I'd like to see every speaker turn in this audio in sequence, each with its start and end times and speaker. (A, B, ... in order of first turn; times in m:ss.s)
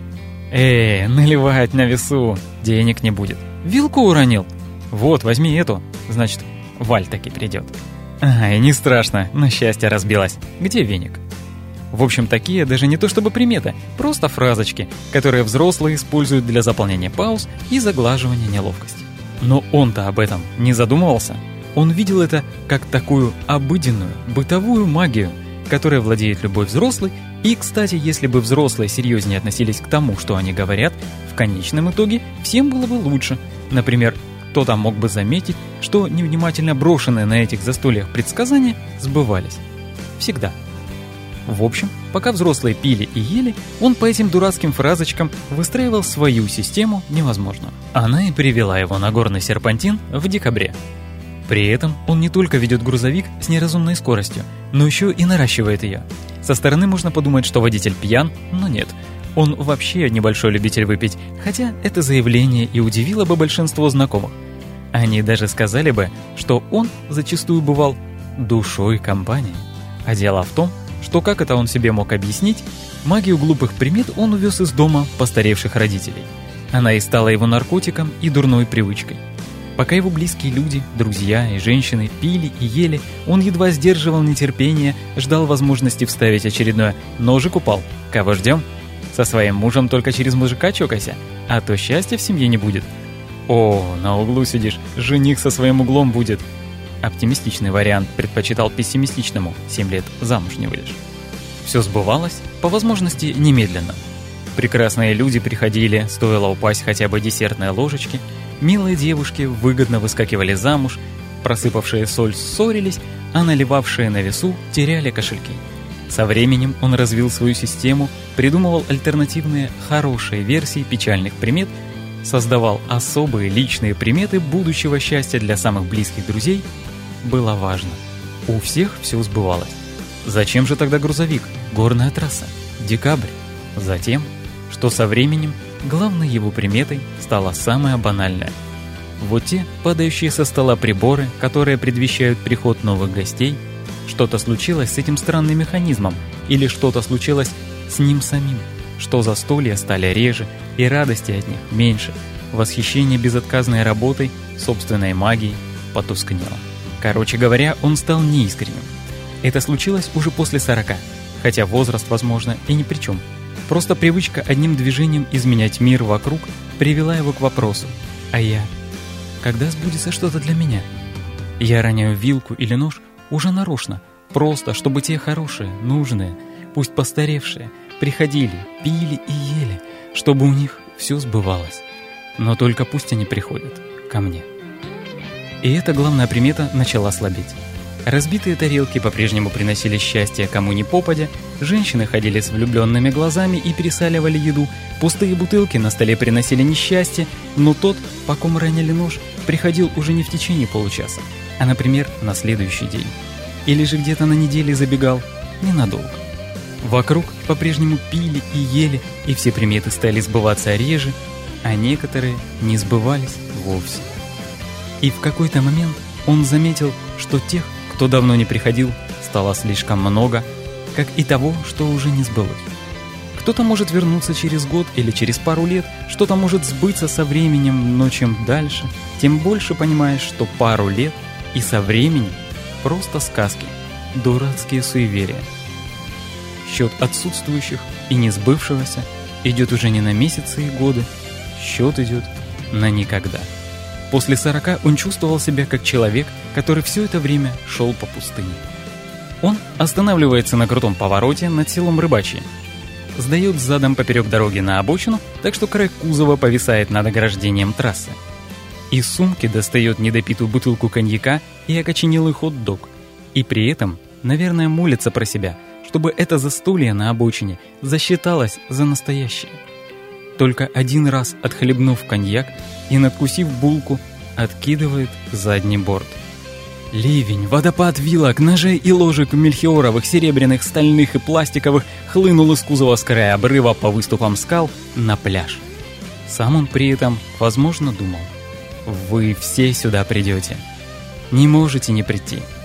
0:00.5-0:11.2 A
0:11.9-0:39.6 A
0:40.2-0:40.6 A
0:41.4-0:50.8 A
0:51.4-1:04.4 A
1:04.9-1:19.2 A
1:19.8-1:32.9 A
1:33.5-1:36.4 A
1:37.0-1:41.0 A
1:41.6-1:44.0 A
1:44.5-2:06.7 A
2:07.2-2:18.5 A
2:19.2-2:38.9 A
2:39.4-2:48.7 A
2:49.4-2:50.9 A
2:51.6-3:01.8 A
3:02.4-3:04.4 A
3:05.6-3:23.1 A
3:23.6-3:26.2 A
3:26.8-3:34.1 A
3:35.0-3:42.7 A
3:43.3-3:55.5 A
3:56.6-4:03.5 A
4:04.1-4:08.6 A
4:09.4-4:12.5 A
4:13.1-4:18.2 A
4:18.9-4:29.6 A
4:30.4-4:36.2 A
4:36.9-4:45.6 A
4:46.2-4:48.3 A
4:48.8-4:50.6 A
4:51.3-4:52.5 A